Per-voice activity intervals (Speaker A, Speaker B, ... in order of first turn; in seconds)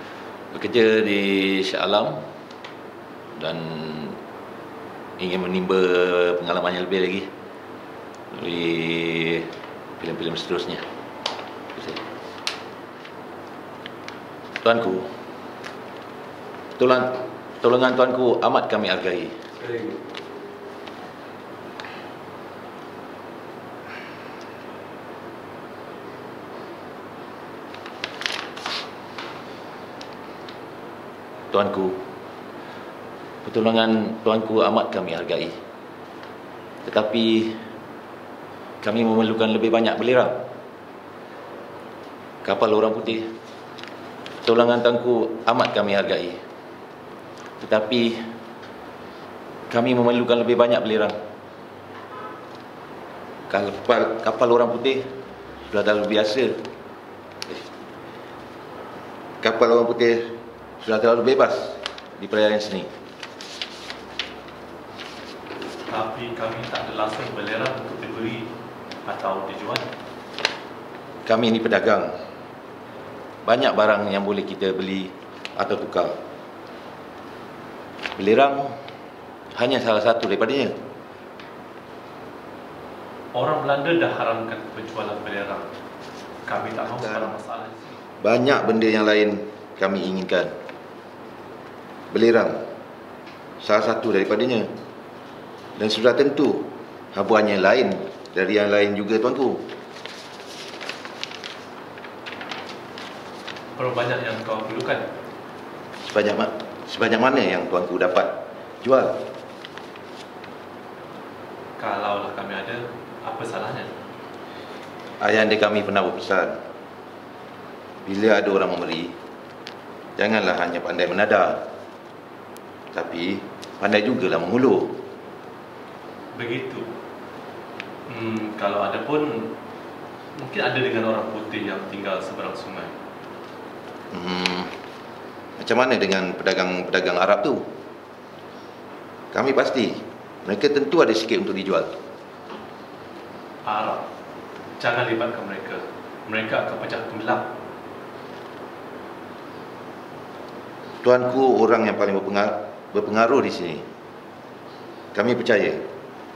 Speaker A: 0.5-2.2, 3.4-4.2, 5.2-7.3, 8.3-10.8, 11.7-12.0, 14.6-15.1, 16.8-19.5, 31.5-32.0, 33.4-35.5, 36.8-37.7, 38.8-40.4, 42.4-43.3, 44.4-46.4, 47.6-48.3, 49.7-51.1, 53.5-55.0, 55.7-56.6, 59.4-62.9, 71.2-72.2, 73.4-76.2, 78.2-78.8, 79.5-80.7, 86.9-87.3, 88.2-90.5, 92.1-92.7, 93.6-94.7, 95.8-99.7, 106.0-109.2, 115.2-116.6, 118.0-119.1, 120.2-121.6, 122.9-125.0, 134.1-134.8, 135.6-137.6, 139.3-141.9, 151.0-153.8, 155.1-155.8
Speaker B: 19.6-19.9, 65.8-69.9, 83.3-85.7, 86.4-88.0, 103.8-105.1, 111.8-114.1, 126.3-126.9, 128.1-129.5, 130.3-132.9, 143.6-144.1, 144.8-147.5